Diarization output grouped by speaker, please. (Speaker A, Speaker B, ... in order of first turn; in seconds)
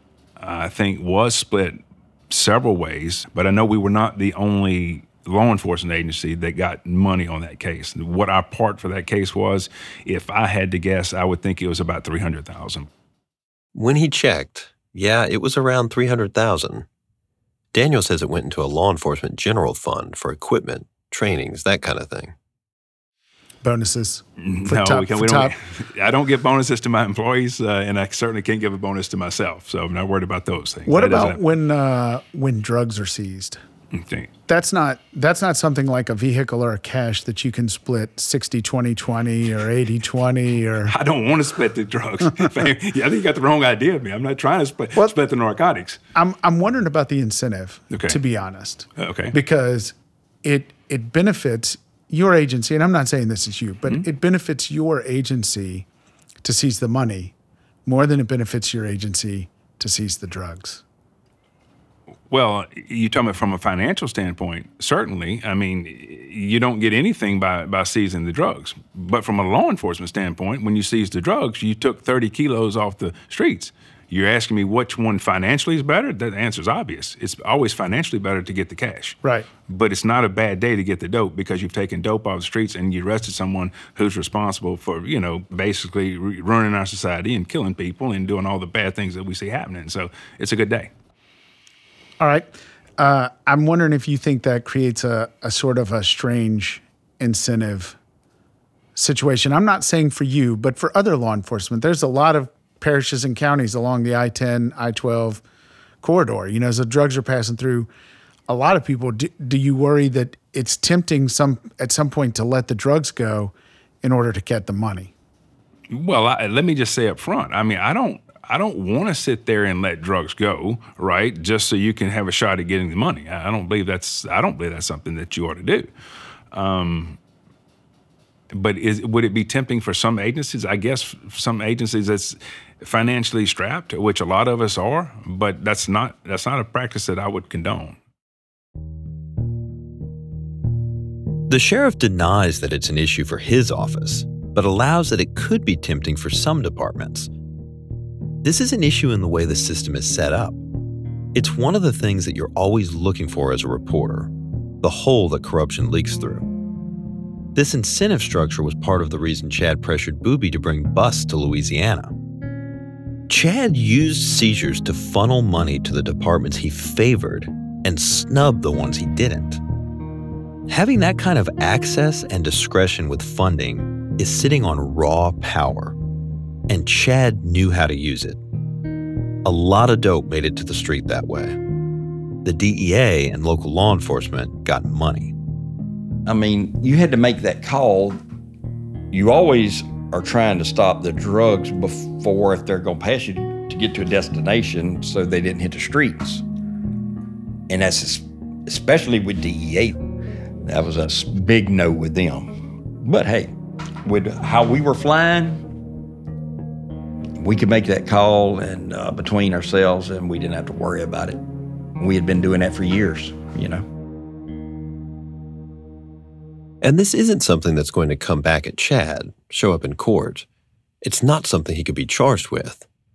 Speaker A: 0.4-12.9, 24.4-31.4, 33.9-34.3, 40.9-46.0, 47.9-48.2, 49.0-49.3, 62.3-79.2, 79.7-90.9, 115.9-125.9, 126.5-127.2, 128.5-138.0
Speaker B: 13.7-16.9, 17.7-22.3, 141.5-147.3, 148.4-150.6, 151.3-154.3, 154.8-156.4, 157.5-162.1, 163.3-169.6, 170.7-175.9, 176.7-178.4, 179.4-181.6, 182.4-185.3, 216.8-220.4, 221.0-222.8
Speaker C: 23.6-25.5, 30.9-33.6, 34.5-40.9, 46.1-55.9, 56.4-57.3, 57.9-60.8, 92.2-98.0, 99.0-105.4, 106.0-107.9, 108.5-115.1
Speaker D: 186.2-188.2, 189.1-196.4, 197.7-200.0, 200.7-203.5, 204.0-205.6, 207.4-211.4, 212.0-213.8